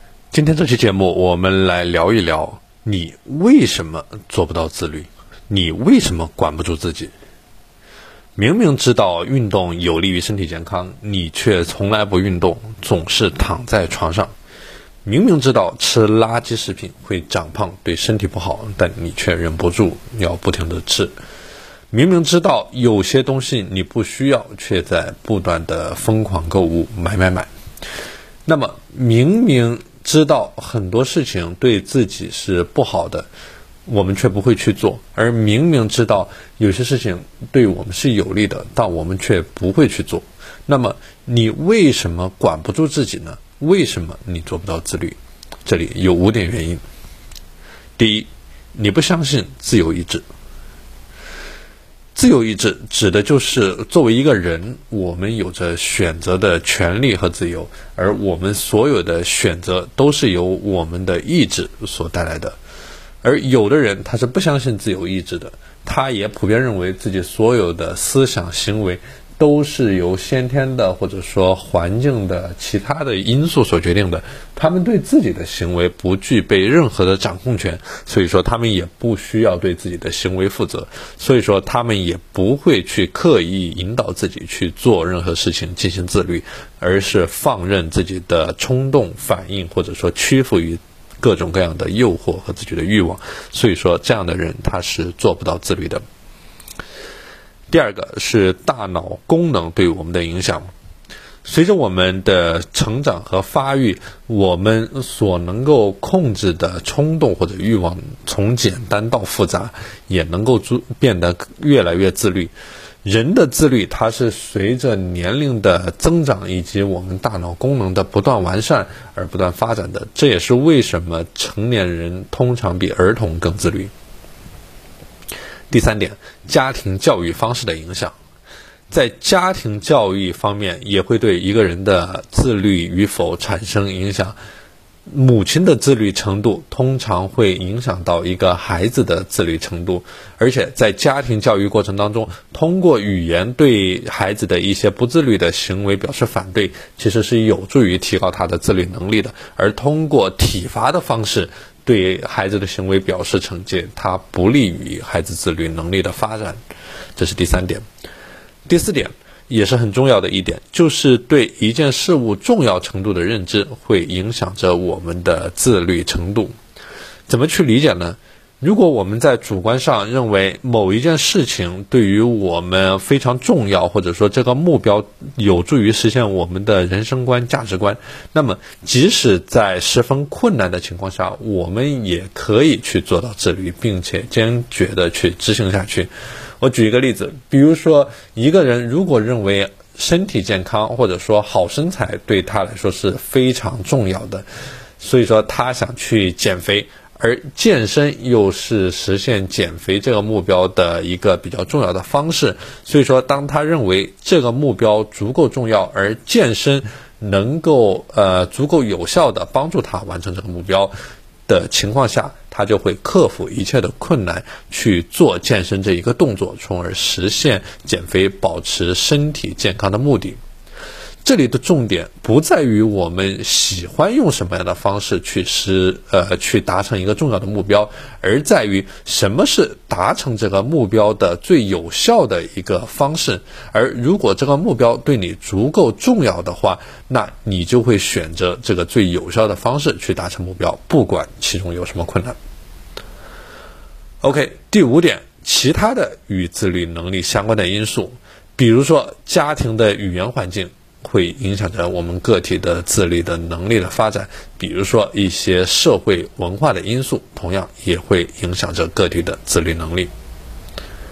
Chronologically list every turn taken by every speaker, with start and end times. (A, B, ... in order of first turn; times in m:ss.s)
0:00.3-0:07.1 A
0:08.4-0:14.3 A
0:15.0-0:21.1 A
0:21.9-0:27.5 A
0:28.4-0:33.3 A
0:33.8-0:46.8 A
0:48.0-0:50.2 A
0:52.1-1:02.6 A
1:03.2-1:36.0 A
1:37.7-1:40.7 A
1:41.4-1:52.5 A
1:53.0-2:03.9 A
2:05.7-2:08.1 A
2:08.9-2:14.4 A
2:15.1-2:36.6 A
2:37.2-2:37.8 A
2:38.7-2:46.5 A
2:47.3-3:06.1 A
3:06.6-3:14.4 A
3:15.0-3:30.9 A
3:31.5-3:40.4 A
3:41.2-4:02.4 A
4:04.2-4:20.1 A